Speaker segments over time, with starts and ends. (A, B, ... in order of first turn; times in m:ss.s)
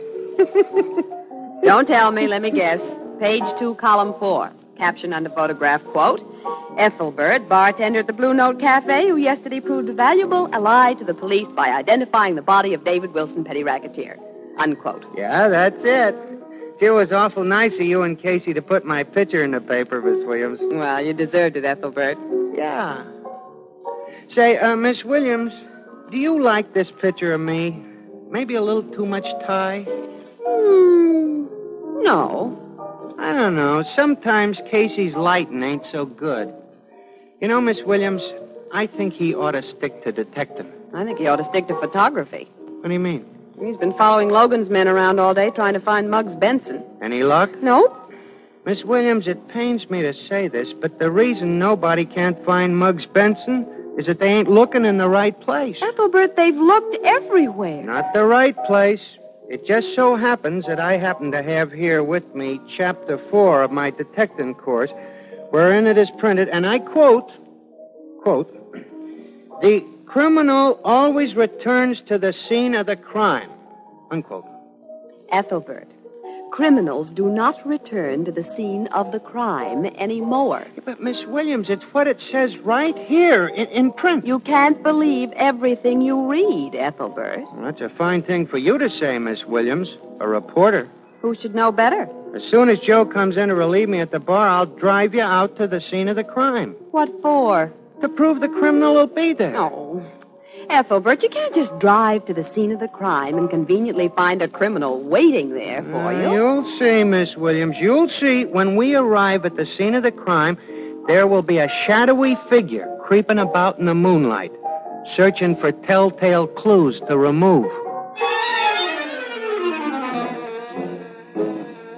0:00.4-0:00.7 A
0:01.6-0:15.1 B
0:15.1-0:16.2 A
0:16.8-0:20.7 A
0:20.7-0:22.2 B
0:22.5-0:23.1 A
0:24.3-0:29.9 A
0:30.4-0:32.6 B
0:33.2-0:36.5 A
0:37.4-0:40.7 A
0:40.9-0:42.5 B
0:42.8-0:43.2 A
0:43.6-0:46.9 B
0:47.0-0:47.6 A
0:47.6-0:48.0 B
0:48.6-0:55.8 A
0:55.8-0:57.9 B
0:57.8-1:04.9 A
1:05.5-1:07.4 A
1:08.2-1:08.6 A
1:09.6-1:13.5 A
1:14.1-1:14.5 A
1:15.3-1:15.9 B
1:16.5-1:20.7 B
1:20.8-1:24.2 A
1:24.2-1:27.5 B
1:27.5-1:30.9 A
1:31.2-1:32.1 B
1:32.3-1:36.8 A
1:36.9-1:37.7 B
1:38.0-1:39.6 A
1:39.5-1:40.1 B
1:40.7-1:46.4 B
1:45.8-1:57.8 A